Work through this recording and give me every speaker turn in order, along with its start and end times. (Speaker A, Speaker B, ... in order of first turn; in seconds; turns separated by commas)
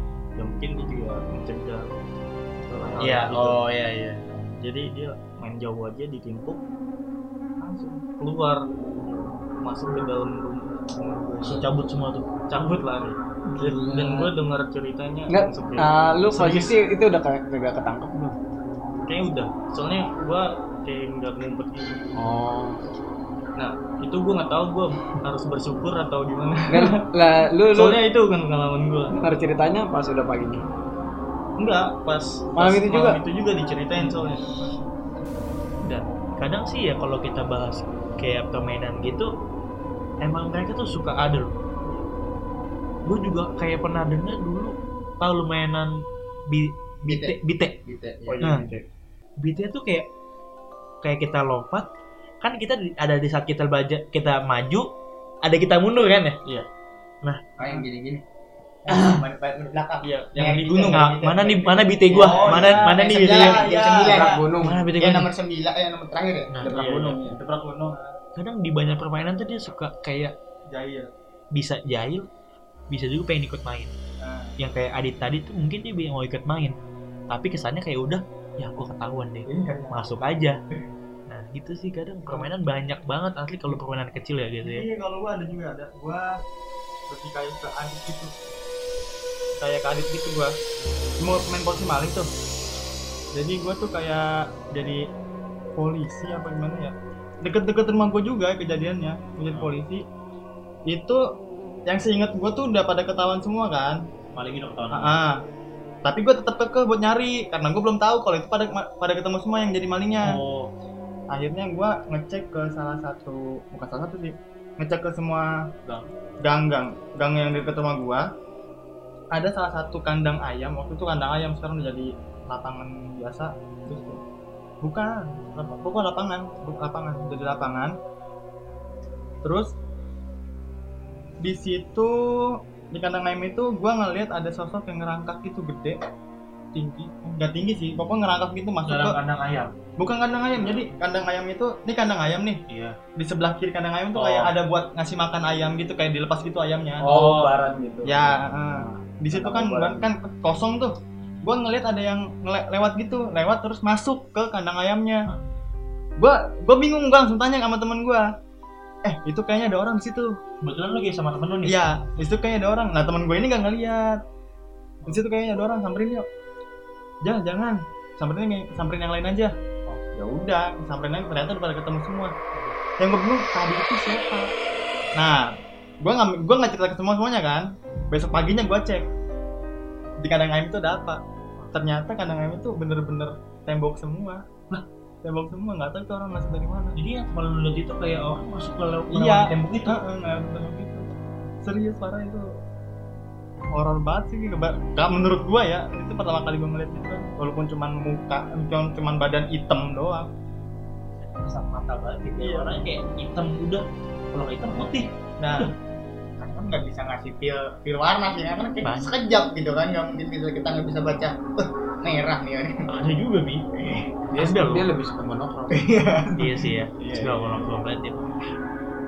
Speaker A: 0.3-2.0, Speaker A: 2.6-3.6, Speaker B: 3.0-4.3, Speaker A: 4.2-6.6, Speaker C: 7.6-8.0, Speaker A: 8.1-11.7, Speaker B: 11.4-12.8, Speaker A: 12.5-16.7, Speaker D: 13.5-14.3, Speaker D: 15.3-18.4, Speaker A: 19.0-22.2, Speaker D: 22.1-22.8, Speaker A: 23.6-27.0, Speaker D: 26.7-28.0, Speaker A: 27.7-29.2, Speaker D: 29.1-30.6, Speaker A: 31.6-34.7, Speaker D: 32.5-33.2, Speaker B: 35.8-39.3, Speaker B: 40.2-41.5, Speaker B: 43.0-46.0, Speaker B: 46.5-47.8, Speaker E: 47.0-48.4, Speaker A: 48.3-48.8, Speaker B: 49.4-50.1, Speaker B: 51.0-51.9, Speaker B: 52.4-54.9, Speaker B: 55.4-56.4, Speaker E: 57.6-58.2, Speaker E: 58.9-64.4, Speaker A: 60.0-61.1, Speaker B: 60.9-63.7, Speaker C: 62.1-64.4, Speaker A: 62.2-62.7, Speaker D: 63.9-64.8, Speaker B: 64.6-65.3, Speaker E: 65.0-66.5, Speaker D: 66.6-67.4, Speaker A: 66.7-67.2, Speaker C: 67.2-68.0, Speaker B: 68.3-70.3, Speaker C: 70.7-71.1, Speaker B: 71.5-72.3, Speaker B: 72.9-73.9, Speaker C: 74.2-74.5, Speaker B: 74.6-76.8, Speaker B: 77.3-80.6, Speaker C: 79.5-80.3, Speaker B: 81.3-84.9, Speaker C: 84.6-86.4, Speaker C: 87.1-88.3, Speaker C: 89.6-90.5, Speaker A: 89.9-90.2, Speaker C: 91.2-92.3, Speaker C: 93.3-95.0, Speaker C: 95.8-100.0, Speaker B: 99.5-99.7, Speaker C: 100.9-101.2, Speaker C: 101.8-104.0, Speaker B: 104.3-105.2, Speaker C: 104.9-105.4, Speaker C: 106.0-110.3, Speaker B: 110.2-110.7, Speaker C: 111.3-115.5, Speaker C: 116.4-118.3, Speaker C: 119.3-124.2, Speaker C: 124.8-127.9, Speaker C: 129.4-129.7, Speaker C: 131.4-136.0, Speaker A: 136.7-137.1, Speaker C: 137.2-139.2, Speaker B: 138.8-139.7, Speaker C: 140.0-142.6, Speaker B: 142.7-143.0, Speaker C: 143.2-147.1, Speaker B: 144.1-144.5, Speaker D: 147.0-150.1, Speaker B: 147.0-147.5, Speaker C: 148.1-155.3, Speaker C: 156.2-158.3, Speaker C: 159.0-160.4, Speaker B: 160.6-162.0, Speaker C: 161.7-164.2, Speaker C: 165.1-166.2, Speaker C: 167.2-169.5, Speaker C: 170.1-172.3, Speaker C: 173.0-174.5, Speaker C: 175.1-175.4, Speaker C: 176.0-179.1, Speaker C: 180.2-181.2, Speaker C: 181.7-184.4, Speaker C: 185.2-186.9, Speaker B: 186.9-190.0, Speaker C: 189.1-192.5, Speaker C: 193.7-200.3, Speaker B: 201.2-205.7, Speaker C: 205.4-205.7, Speaker E: 206.4-212.8, Speaker B: 208.8-209.1, Speaker B: 212.9-213.8, Speaker D: 214.3-216.2, Speaker B: 214.4-214.8, Speaker E: 215.7-216.6, Speaker B: 216.3-218.5, Speaker E: 217.2-217.6